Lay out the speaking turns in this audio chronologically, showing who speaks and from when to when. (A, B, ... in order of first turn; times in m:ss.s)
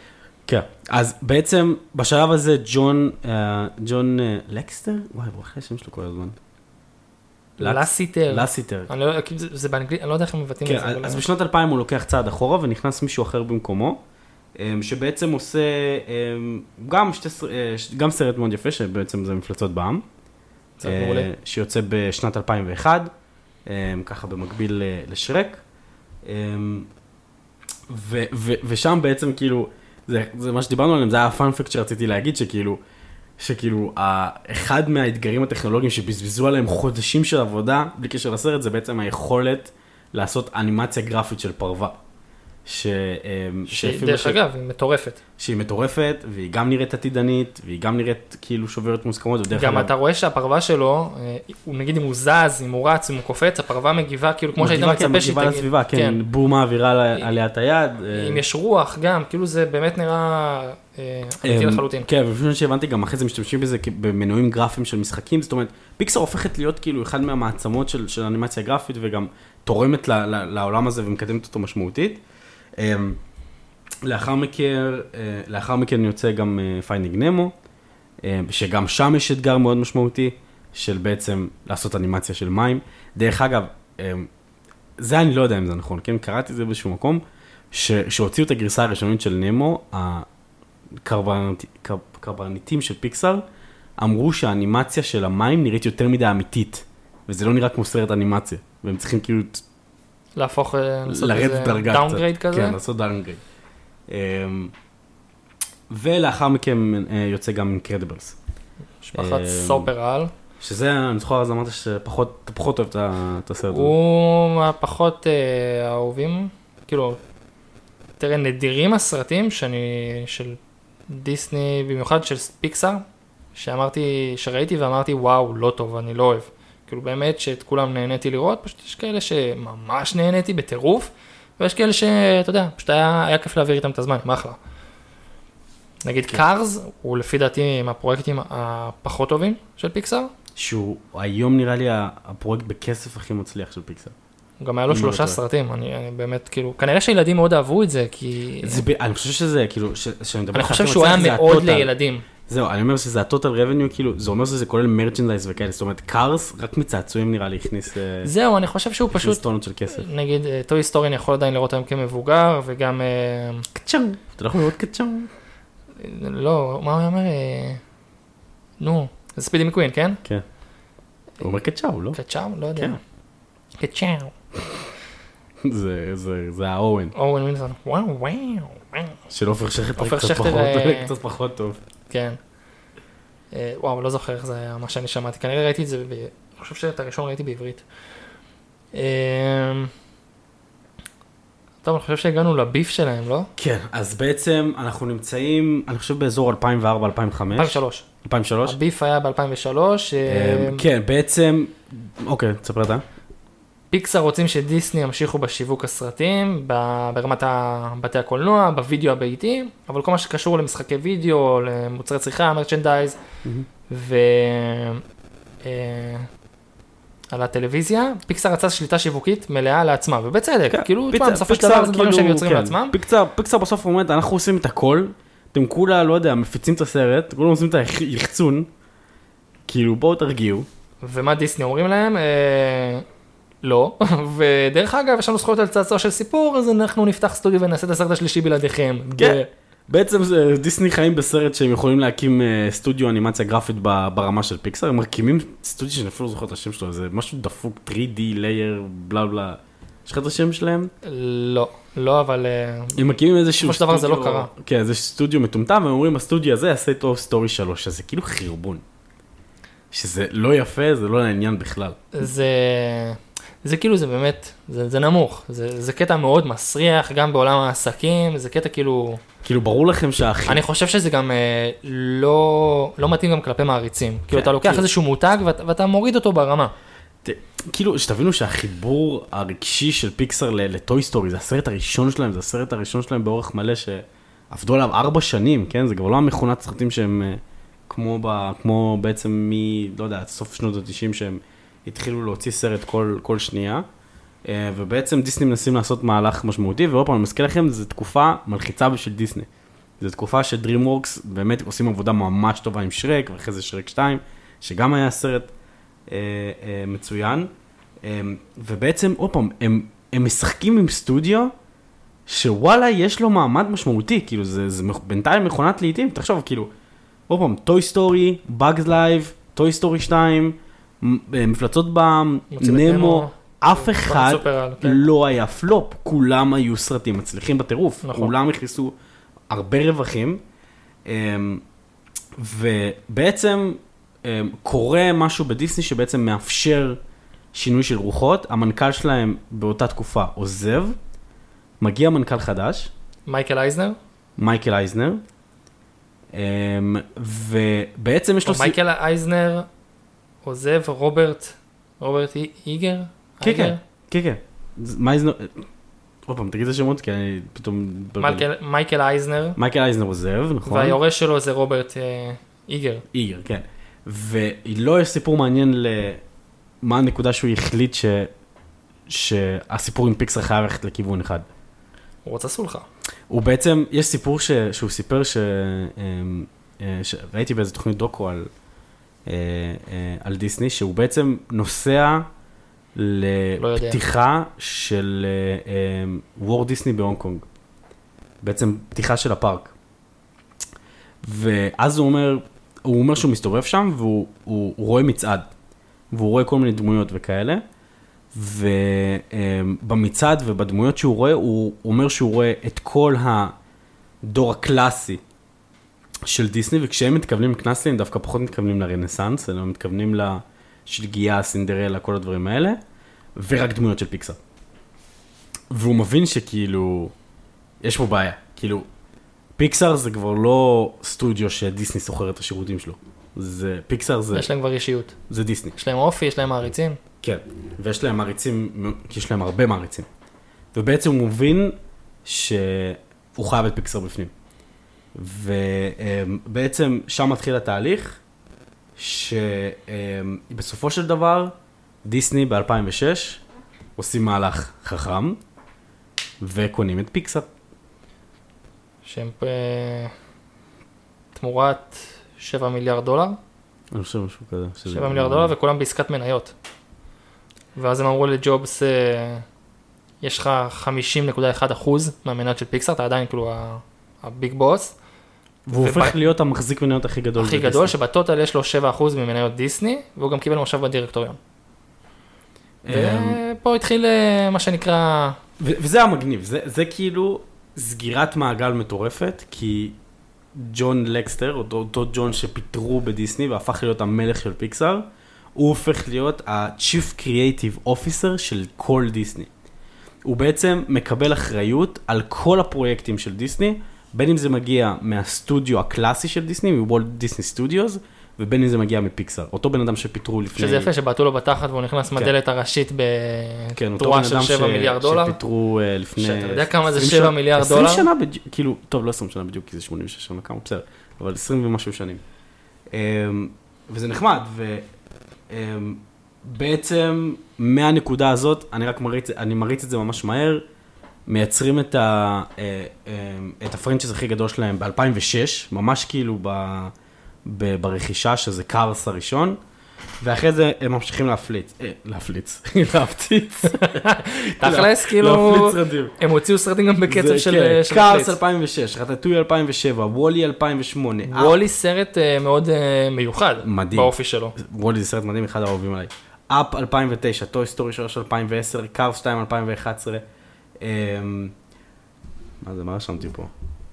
0:00.4-0:06.4 A
0:07.6-0:11.2 B
0:07.6-0:08.9 A
0:10.6-0:14.0 A
0:14.6-0:20.0 A
0:20.8-0:21.3 B
0:20.8-0:23.1 A
0:23.6-0:25.6 A
0:26.2-0:26.9 A
0:27.9-0:32.8 A
0:33.4-0:42.0 A
0:42.6-0:44.4 A
0:43.7-0:45.2 B
0:45.4-0:49.9 A
0:49.5-0:56.2 B
0:54.6-0:58.4 A
0:58.1-1:02.1 B
1:01.4-1:12.2 A
1:12.8-1:13.2 A
1:14.0-1:17.5 A
1:18.2-1:24.3 A
1:25.0-1:30.3 A
1:31.0-1:33.4 A
1:34.0-1:39.6 A
1:40.4-1:42.8 B
1:41.1-1:43.4 A
1:44.1-1:44.7 A
1:45.9-1:48.4 A
1:49.0-1:50.3 B
1:49.2-1:49.9 A
1:50.6-1:53.9 A
1:53.7-1:57.2 B
1:58.2-2:00.6 B
2:01.1-2:03.0 B
2:03.5-2:14.6 B
2:16.0-2:20.3 B
2:20.6-2:24.1 A
2:24.6-2:28.8 B
2:24.9-2:25.4 A
2:28.6-2:31.9 A
2:30.5-2:32.2 B
2:32.4-2:38.3 A
2:38.2-2:43.7 B
2:39.1-2:40.1 A
2:43.7-2:45.3 A
2:46.0-2:47.8 B
2:48.8-2:50.2 B
2:51.4-2:52.2 A
2:52.1-2:53.0 B
2:53.8-2:54.3 B
2:55.6-2:57.1 A
2:57.1-2:59.2 B
2:59.3-3:01.8 A
3:00.0-3:01.1 B
3:02.1-3:02.4 B
3:03.5-3:07.8 B
3:08.9-3:09.9 B
3:11.8-3:13.5 B
3:13.6-3:18.8 A
3:17.5-3:18.0 B
3:18.6-3:20.8 B
3:20.3-3:23.0 A
3:23.9-3:33.2 B
3:33.9-3:35.0 B
3:35.6-3:36.3 B
3:37.3-3:43.0 B
3:40.7-3:48.7 A
3:49.7-3:50.7 A
3:51.0-3:53.0 B
3:53.6-3:59.5 B
3:59.1-4:10.9 A
4:11.0-4:13.0 B
4:13.0-4:18.8 A
4:13.6-4:14.5 B
4:19.9-4:22.0 A
4:22.1-4:29.2 B
4:29.4-4:30.6 A
4:30.5-4:36.7 B
4:34.3-4:34.8 A
4:37.2-4:53.8 A
4:54.4-4:59.5 A
5:00.0-5:05.5 A
5:06.1-5:07.5 A
5:08.0-5:11.5 A
5:12.3-5:16.7 A
5:17.3-5:28.9 A
5:22.5-5:25.0 B
5:28.0-5:28.3 B
5:29.5-5:30.4 A
5:31.0-5:31.6 A
5:32.4-5:37.0 A
5:37.5-5:41.0 A
5:41.8-5:42.9 A
5:43.3-5:44.0 B
5:44.4-5:45.2 A
5:46.3-5:48.8 A
5:48.4-5:49.7 B
5:50.4-5:53.8 B
5:53.4-5:55.6 A
5:56.2-5:58.4 A
5:58.2-5:59.6 B
5:59.6-6:01.0 A
6:00.6-6:03.0 B
6:03.1-6:06.2 A
6:06.8-6:08.3 A
6:09.1-6:11.4 A
6:12.2-6:12.9 B
6:13.3-6:18.5 A
6:19.3-6:22.2 A
6:22.9-6:27.4 A
6:23.6-6:24.0 B
6:28.4-6:29.7 A
6:31.2-6:35.5 A
6:36.1-6:37.6 A
6:38.3-6:43.5 A
6:44.2-6:45.2 A
6:46.3-6:52.8 A
6:53.3-6:54.4 A
6:55.7-6:57.1 A
6:57.8-6:58.9 A
6:59.6-7:04.5 A
7:04.3-7:05.2 B
7:05.3-7:05.7 A
7:05.7-7:07.0 B
7:07.2-7:10.1 A
7:10.7-7:14.3 A
7:15.1-7:18.2 A
7:19.0-7:21.5 A
7:22.0-7:23.4 A
7:24.0-7:25.4 A
7:26.4-7:27.5 A
7:29.0-7:30.1 B
7:31.3-7:33.4 B
7:33.9-7:35.5 A
7:34.9-7:36.5 B
7:37.8-7:39.4 B
7:40.2-7:44.9 B
7:45.6-7:47.9 A
7:45.8-7:46.2 B
7:47.4-7:51.4 B
7:52.8-7:53.4 A
7:52.9-7:55.4 B
7:55.6-8:00.0 A
8:00.5-8:09.5 A
8:10.2-8:20.9 A
8:20.5-8:25.4 B
8:23.8-8:32.2 A
8:26.2-8:28.1 B
8:32.9-8:34.9 A
8:35.5-8:40.6 A
8:41.3-8:46.9 A
8:47.4-8:49.6 A
8:50.2-8:56.2 A
8:53.7-8:58.4 B
8:57.1-9:01.6 A
9:01.3-9:04.6 B
9:03.6-9:10.2 A
9:10.8-9:11.5 A
9:12.6-9:13.5 A